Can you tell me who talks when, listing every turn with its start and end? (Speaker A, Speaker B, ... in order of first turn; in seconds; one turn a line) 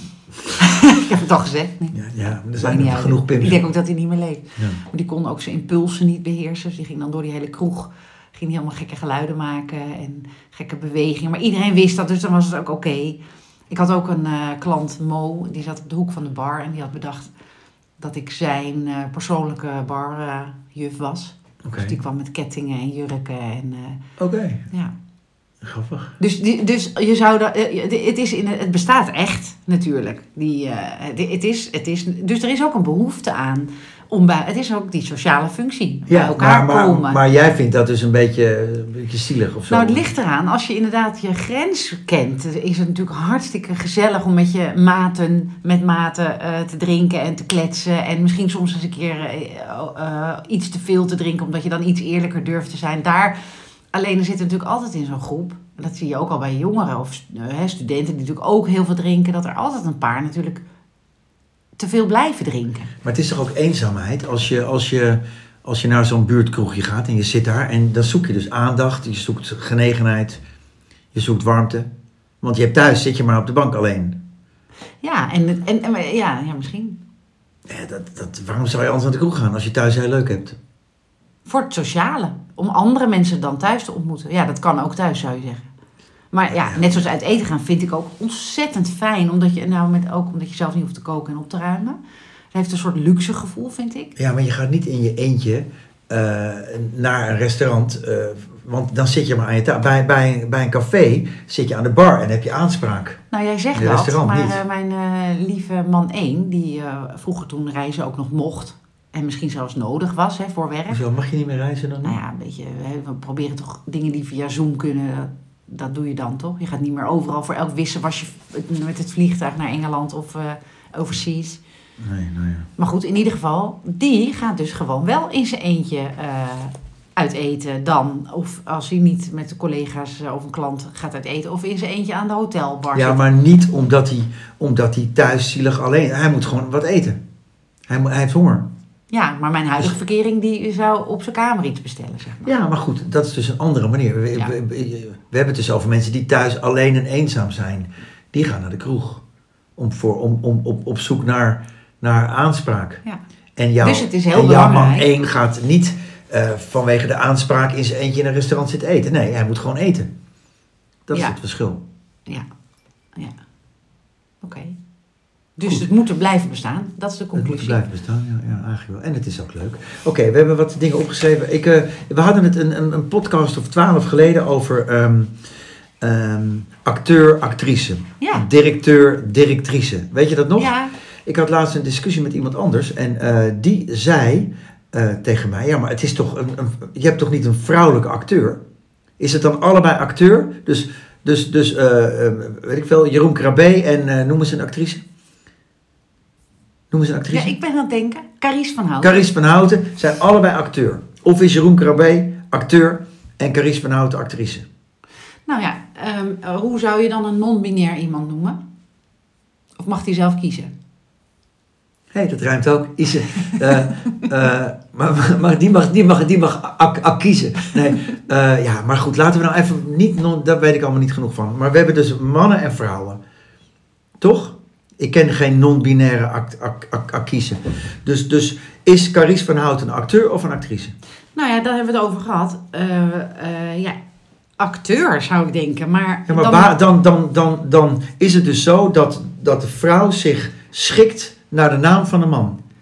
Speaker A: 0.5-2.0
Speaker B: 1.9-3.6
Speaker A: 2.5-13.2
Speaker A: 13.7-17.3
Speaker A: 18.0-24.0
Speaker B: 21.6-21.9
Speaker B: 24.2-24.6
Speaker B: 25.6-26.1
Speaker A: 26.2-37.2
Speaker B: 36.1-40.0
Speaker A: 39.7-53.4
Speaker A: 53.9-60.6
Speaker A: 61.8-62.9
Speaker B: 63.0-70.4
Speaker B: 71.1-71.9
Speaker B: 72.4-74.2
Speaker A: 75.0-77.0
Speaker B: 77.7-80.6
Speaker A: 81.5-85.7
Speaker A: 86.3-92.0
Speaker B: 86.5-87.0
Speaker A: 92.5-94.1
Speaker B: 94.2-103.2
Speaker A: 103.3-111.0
Speaker B: 103.7-104.6
Speaker B: 110.9-112.2
Speaker A: 112.0-121.6
Speaker B: 122.0-122.7
Speaker A: 122.8-133.2
Speaker B: 132.9-137.2
Speaker B: 137.9-138.7
Speaker A: 139.1-142.5
Speaker B: 142.4-149.2
Speaker B: 149.8-153.0
Speaker B: 153.6-160.1
Speaker A: 153.8-155.1
Speaker B: 161.1-161.8
Speaker A: 164.4-164.8
Speaker A: 165.6-167.8
Speaker B: 167.3-175.3
Speaker B: 176.0-180.7
Speaker A: 178.2-178.5
Speaker A: 180.6-180.9
Speaker B: 181.2-188.6
Speaker B: 189.2-195.0
Speaker B: 196.9-197.5
Speaker A: 197.3-199.2
Speaker B: 199.0-204.7
Speaker A: 205.5-208.6
Speaker A: 209.8-210.7
Speaker B: 212.1-223.2
Speaker B: 224.2-230.9
Speaker A: 231.3-234.0
Speaker A: 234.6-236.7
Speaker B: 236.3-242.6